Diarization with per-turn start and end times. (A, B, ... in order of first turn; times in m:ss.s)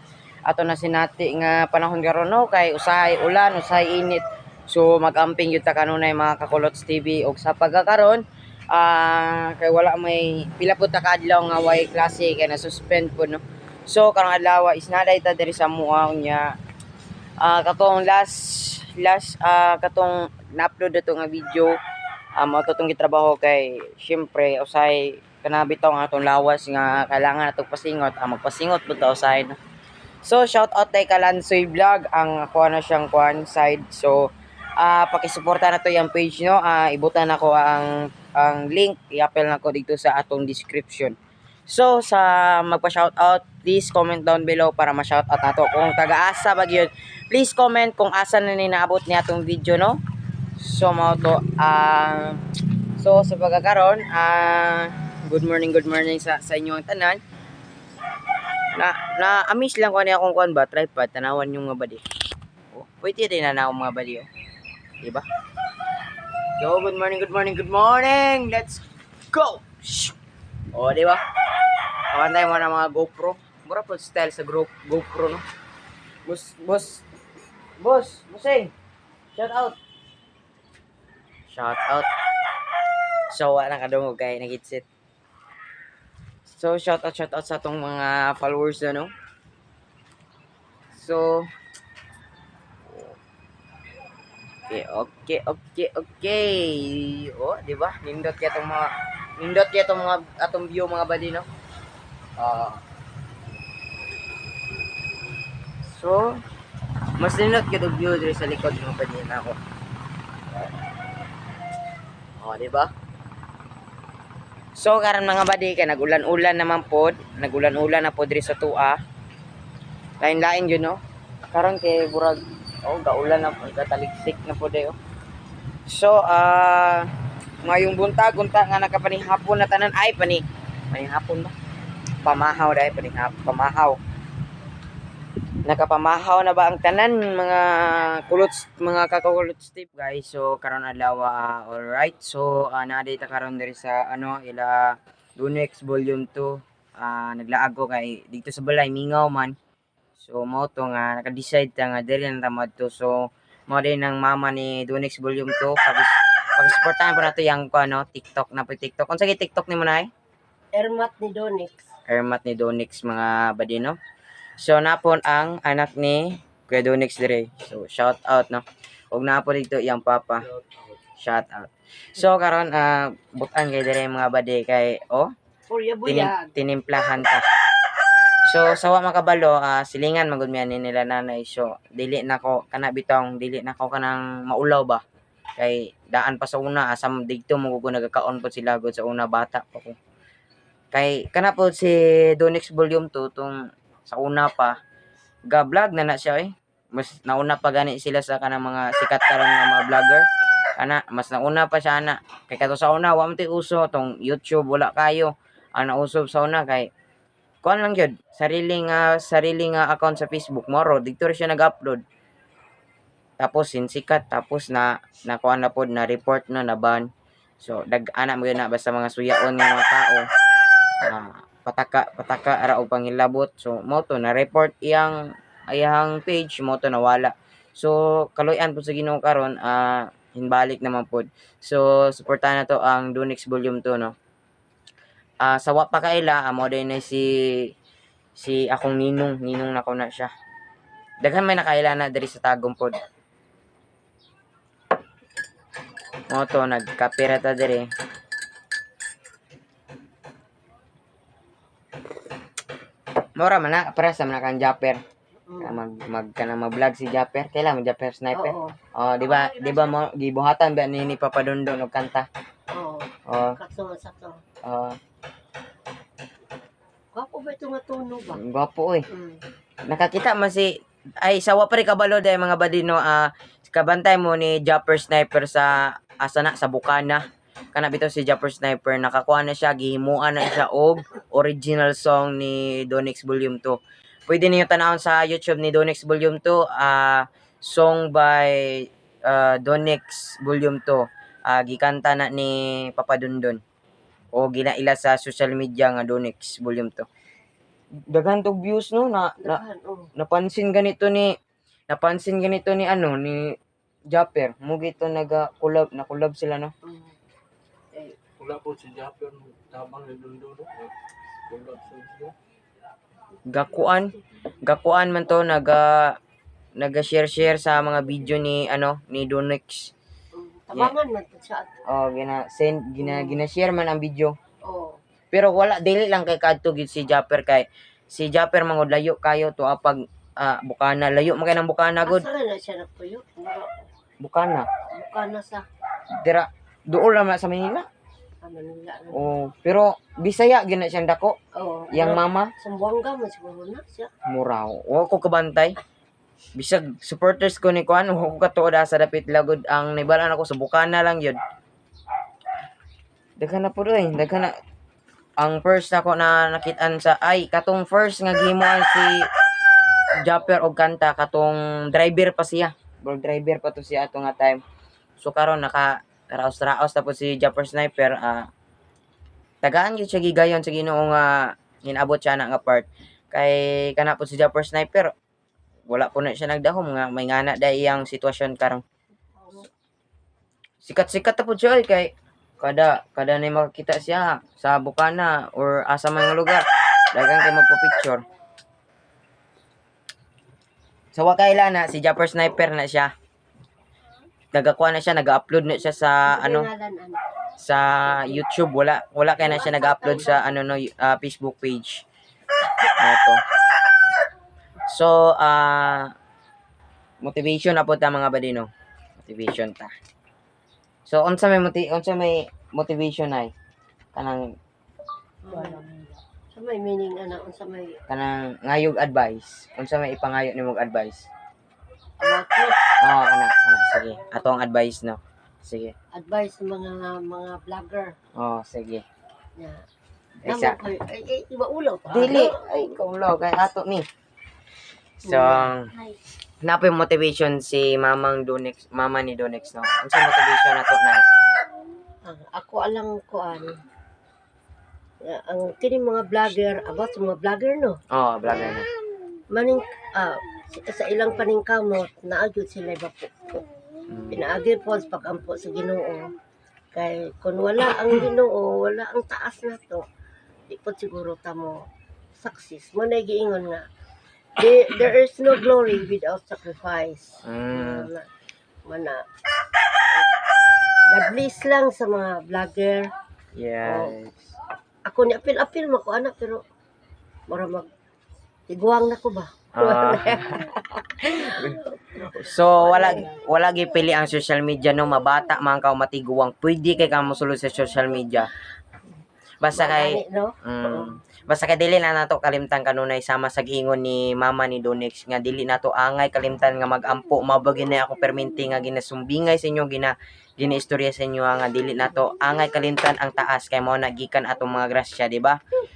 0:00.4-0:16.6 A
0:17.4-0:21.8 A
0:22.4-0:29.6 A
0:30.2-0:41.2 A
0:41.7-0:50.0 A
0:50.6-0:52.4 A
0:53.0-0:57.2 A
0:58.7-1:02.0 A
1:02.7-1:04.3 A
1:06.6-1:10.1 A
1:10.7-1:11.2 A
1:12.1-1:15.4 A
1:16.2-1:17.0 A
1:17.8-1:18.7 A
1:19.4-1:19.8 A
1:21.5-1:22.1 A
1:23.3-1:24.8 A
1:26.5-1:29.1 A
1:30.9-1:31.5 A
1:34.7-1:41.4 A
1:42.4-1:42.8 A
1:45.8-1:46.4 A
1:47.2-1:49.6 A
1:52.4-1:52.9 A
1:54.8-1:59.0 A
2:00.2-2:01.0 A
2:01.5-2:05.0 A
2:05.9-2:07.1 A
2:07.6-2:11.5 A
2:12.2-2:14.0 A
2:15.6-2:29.6 A
2:30.2-2:40.1 A
2:40.7-2:41.9 B
2:42.1-2:44.0 A
2:44.6-2:50.5 A
2:51.2-2:55.3 A
2:55.7-2:56.6 B
2:56.0-2:57.5 A
2:58.4-3:05.0 A
3:05.6-3:10.0 A
3:10.9-3:14.8 A
3:15.5-3:26.9 A
3:27.6-3:32.0 A
3:33.4-3:37.1 A
3:37.6-3:40.2 A
3:41.0-3:54.1 A
3:55.4-3:57.7 A
3:58.4-4:00.3 A
4:01.2-4:03.0 A
4:06.3-4:07.9 A
4:13.4-4:15.0 A
4:15.5-4:15.8 B
4:15.6-4:22.3 A
4:18.3-4:18.8 B
4:22.7-4:24.4 B
4:23.3-4:23.6 A
4:24.6-4:25.0 A
4:27.1-4:28.4 B
4:28.3-4:29.0 A
4:29.1-4:29.4 B
4:29.9-4:53.6 A
4:54.3-4:57.1 A
4:58.1-4:59.6 A
4:59.4-5:00.1 B
5:00.2-5:01.4 A
5:01.9-5:03.5 A
5:04.1-5:06.7 A
5:06.8-5:07.2 B
5:08.4-5:10.9 C
5:11.5-5:12.3 C
5:13.5-5:16.2 A
5:16.8-5:19.9 A
5:20.3-5:21.8 B
5:21.9-5:24.3 A
5:23.0-5:23.4 B
5:24.6-5:25.0 B
5:25.3-5:32.3 A
5:32.0-5:33.9 B
5:34.2-5:34.7 A
5:34.9-5:35.6 B
5:36.2-5:37.8 A
5:38.4-5:39.2 B
5:39.1-5:41.4 A
5:41.5-5:44.1 B
5:41.9-5:42.5 A
5:44.3-5:45.8 A
5:46.5-5:51.4 A
5:53.4-5:54.6 A
5:55.4-5:59.3 A
6:00.2-6:04.6 A
6:05.2-6:08.5 A
6:09.6-6:15.1 A
6:15.9-6:18.8 A
6:19.3-6:19.7 B
6:20.8-6:28.2 A
6:31.1-6:33.1 A
6:34.5-6:36.7 A
6:36.3-6:37.2 B
6:37.6-6:42.0 A
6:37.9-6:38.4 B
6:39.4-6:40.4 B
6:43.0-6:43.4 A
6:44.9-6:46.1 A
6:47.2-6:49.9 A
6:51.0-6:53.5 A
6:54.1-6:54.5 A
6:55.4-6:58.0 B
6:58.1-7:01.3 A
7:02.2-7:02.8 B
7:03.0-7:05.9 A
7:06.1-7:08.2 B
7:08.4-7:09.0 A
7:10.4-7:10.8 A
7:10.4-7:12.6 B
7:12.1-7:14.1 A
7:15.2-7:16.0 A
7:15.2-7:15.7 B
7:16.6-7:21.2 A
7:22.2-7:23.8 B
7:25.2-7:28.0 B
7:28.1-7:28.8 A
7:29.5-7:33.6 B
7:34.1-7:34.4 A
7:34.3-7:36.3 B
7:36.9-7:40.0 B
7:40.7-7:41.8 B
7:42.4-7:43.9 B
7:44.6-7:48.3 B
7:47.4-7:48.1 A
7:48.8-7:49.2 B
7:51.1-7:53.1 B
7:53.5-7:54.5 A
7:53.8-7:54.1 B
7:55.0-7:56.6 B
7:57.5-7:57.9 B
7:58.7-8:00.8 B
7:59.7-8:08.5 A
8:01.6-8:03.3 B
8:09.6-8:25.6 A
8:09.7-8:11.2 B